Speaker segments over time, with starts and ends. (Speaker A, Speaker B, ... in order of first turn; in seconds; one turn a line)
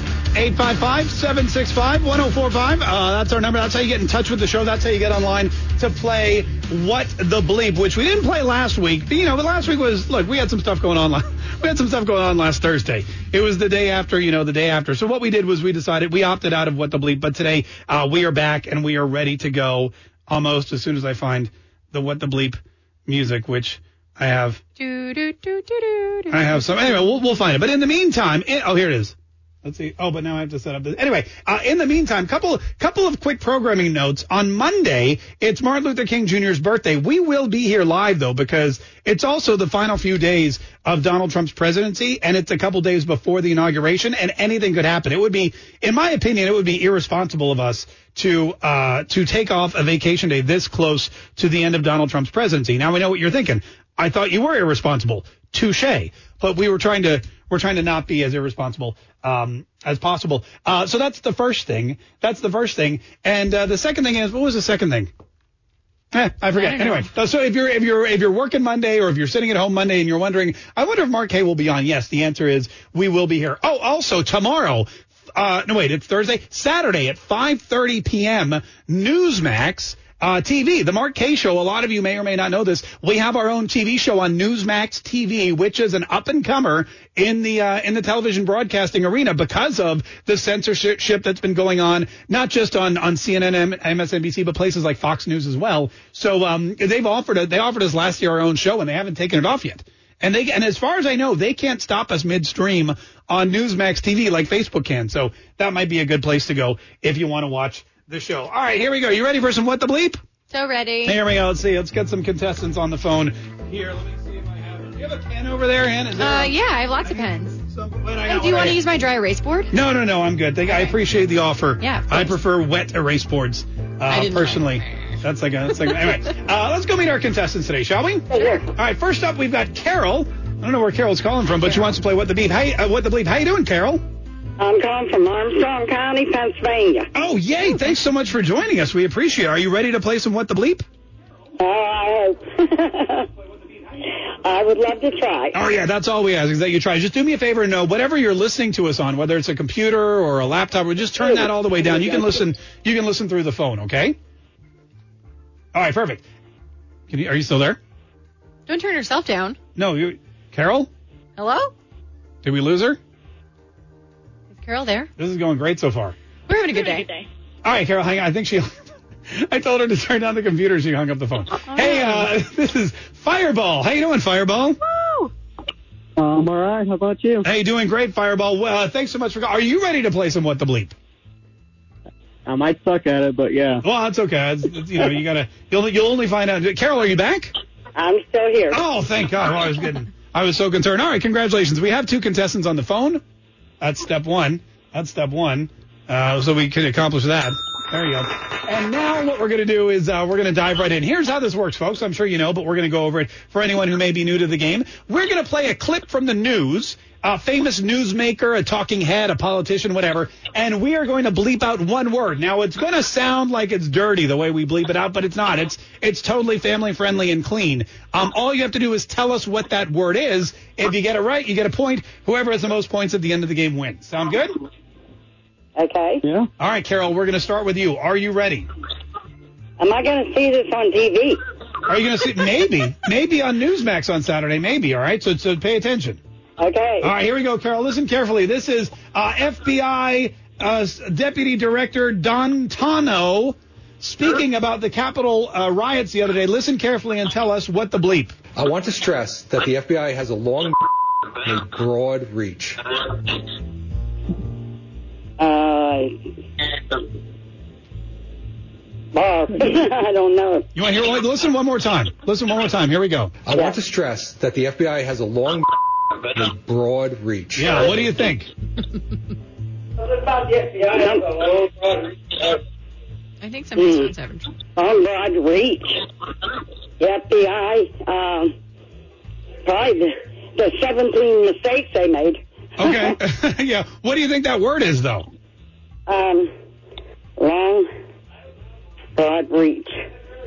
Speaker A: 0.4-24.6
Speaker B: 24.8-27.1
Speaker A: 26.3-65.1
Speaker A: 66.1-110.2
Speaker B: 66.5-67.1
Speaker B: 110.5-111.2
Speaker A: 111.0-118.8
Speaker B: 116.2-117.6
Speaker B: 118.2-119.7
Speaker A: 119.7-134.0
Speaker B: 121.8-122.4
Speaker B: 124.1-124.8
Speaker C: 128.3-128.6
Speaker C: 134.6-137.1
Speaker A: 137.1-140.8
Speaker C: 141.6-143.3
Speaker C: 144.4-145.6
Speaker A: 145.5-154.2
Speaker C: 152.1-152.4
Speaker A: 155.7-156.2
Speaker A: 157.1-157.8
Speaker B: 158.7-159.6
Speaker A: 159.8-160.9
Speaker B: 161.4-161.7
Speaker A: 162.4-163.0
Speaker B: 164.5-165.1
Speaker A: 165.2-166.1
Speaker B: 166.5-167.2
Speaker A: 167.6-168.7
Speaker A: 169.3-174.8
Speaker B: 171.7-172.3
Speaker B: 174.9-175.3
Speaker D: 176.2-177.4
Speaker A: 177.4-180.9
Speaker D: 182.5-183.8
Speaker A: 183.8-187.5
Speaker C: 187.9-188.8
Speaker A: 188.7-193.2
Speaker A: 193.8-224.6
Speaker C: 225.8-226.2
Speaker A: 226.6-228.7
Speaker C: 229.8-231.4
Speaker A: 231.9-236.2
Speaker C: 236.6-237.1
Speaker A: 237.0-248.3
Speaker E: 248.6-250.8
Speaker E: 251.4-252.8
Speaker C: 255.4-256.1
Speaker C: 259.1-260.6
Speaker A: 260.8-263.3
Speaker E: 263.4-265.7
Speaker C: 263.5-263.8
Speaker E: 266.3-268.1
Speaker A: 267.6-268.5
Speaker C: 270.0-272.1
Speaker B: 273.4-274.5
Speaker C: 273.8-274.1
Speaker C: 274.7-276.0
Speaker C: 277.0-278.5
Speaker C: 279.6-283.2
Speaker A: 282.8-285.3
Speaker C: 286.1-286.5
Speaker C: 287.4-287.9
Speaker C: 289.1-290.0